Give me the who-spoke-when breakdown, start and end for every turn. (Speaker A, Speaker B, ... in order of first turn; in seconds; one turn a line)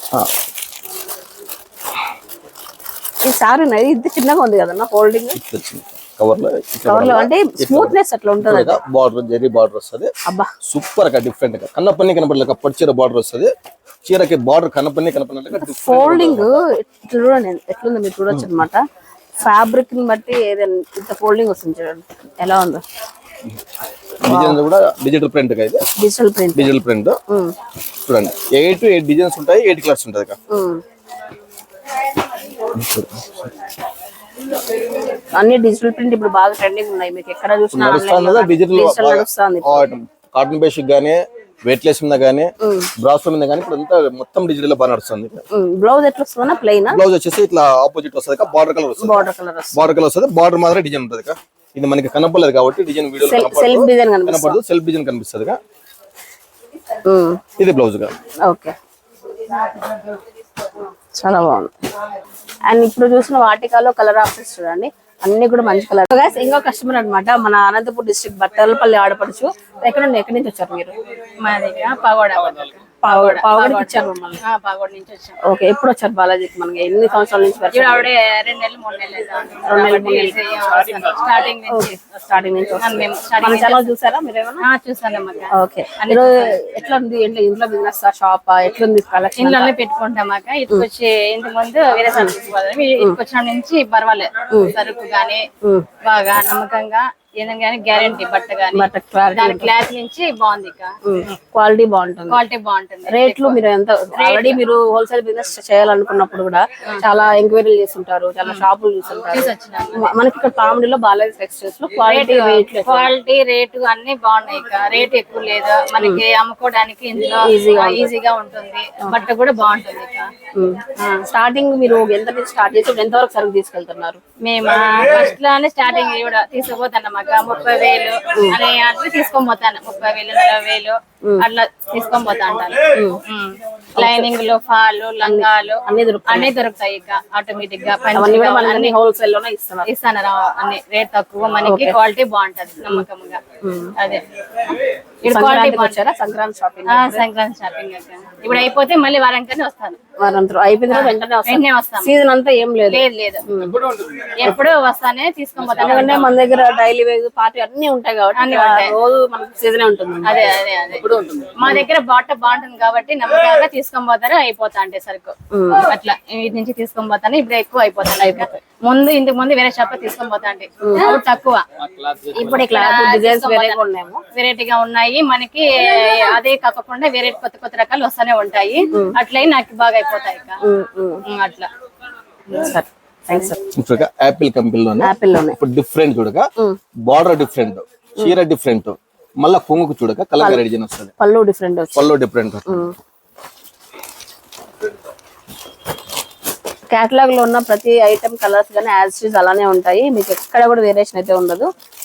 Speaker A: 3.2-5.4
Speaker B: 5.3-10.1
Speaker A: 6.9-8.8
Speaker A: 10.2-10.5
Speaker B: 10.6-13.5
Speaker B: 14.0-16.6
Speaker A: 15.5-18.8
Speaker A: 19.4-22.8
Speaker B: 24.2-25.8
Speaker A: 24.3-24.6
Speaker A: 25.9-26.8
Speaker B: 26.5-27.2
Speaker A: 27.3-27.5
Speaker B: 28.0-30.4
Speaker A: 30.5-30.8
Speaker B: 32.7-33.5
Speaker A: 35.3-39.9
Speaker B: 37.7-45.4
Speaker A: 42.6-42.9
Speaker A: 45.5-47.0
Speaker B: 46.9-55.6
Speaker A: 49.0-49.9
Speaker A: 53.2-54.6
Speaker A: 57.0-57.4
Speaker B: 57.6-58.1
Speaker A: 58.4-58.7
Speaker A: 61.1-61.7
Speaker A: 62.7-70.9
Speaker C: 71.4-75.4
Speaker A: 73.0-74.4
Speaker A: 75.4-78.1
Speaker C: 77.7-82.0
Speaker A: 79.7-80.4
Speaker A: 81.7-84.6
Speaker C: 82.7-83.9
Speaker C: 84.6-86.5
Speaker A: 85.5-89.7
Speaker C: 89.4-95.5
Speaker C: 96.0-101.0
Speaker A: 98.7-99.7
Speaker A: 101.0-102.4
Speaker C: 102.3-103.6
Speaker A: 103.1-113.1
Speaker C: 104.2-104.6
Speaker C: 109.3-110.1
Speaker C: 112.0-120.3
Speaker A: 117.4-118.1
Speaker A: 120.5-124.2
Speaker C: 121.0-121.2
Speaker C: 124.4-138.9
Speaker A: 132.9-133.2
Speaker A: 133.9-134.3
Speaker A: 135.2-136.5
Speaker A: 138.1-139.9
Speaker C: 139.8-143.4
Speaker A: 141.6-141.9
Speaker A: 143.6-143.9
Speaker C: 144.0-144.2
Speaker C: 145.2-146.0
Speaker A: 145.2-147.2
Speaker C: 146.9-150.0
Speaker A: 150.2-153.8
Speaker C: 150.9-152.1
Speaker C: 152.9-153.6
Speaker C: 154.3-156.3
Speaker A: 155.8-160.4
Speaker C: 158.4-158.9
Speaker C: 160.2-171.7
Speaker A: 165.5-165.8
Speaker A: 168.2-168.6
Speaker A: 170.8-171.2
Speaker A: 172.3-174.2
Speaker C: 172.4-173.8
Speaker C: 174.3-180.6
Speaker A: 178.9-179.2
Speaker A: 180.6-181.2
Speaker C: 181.2-181.7
Speaker A: 182.5-183.6
Speaker B: 183.7-186.5
Speaker A: 185.0-185.6
Speaker B: 187.0-191.1
Speaker A: 191.2-192.1
Speaker B: 191.9-192.9
Speaker A: 192.7-192.9
Speaker A: 196.9-201.7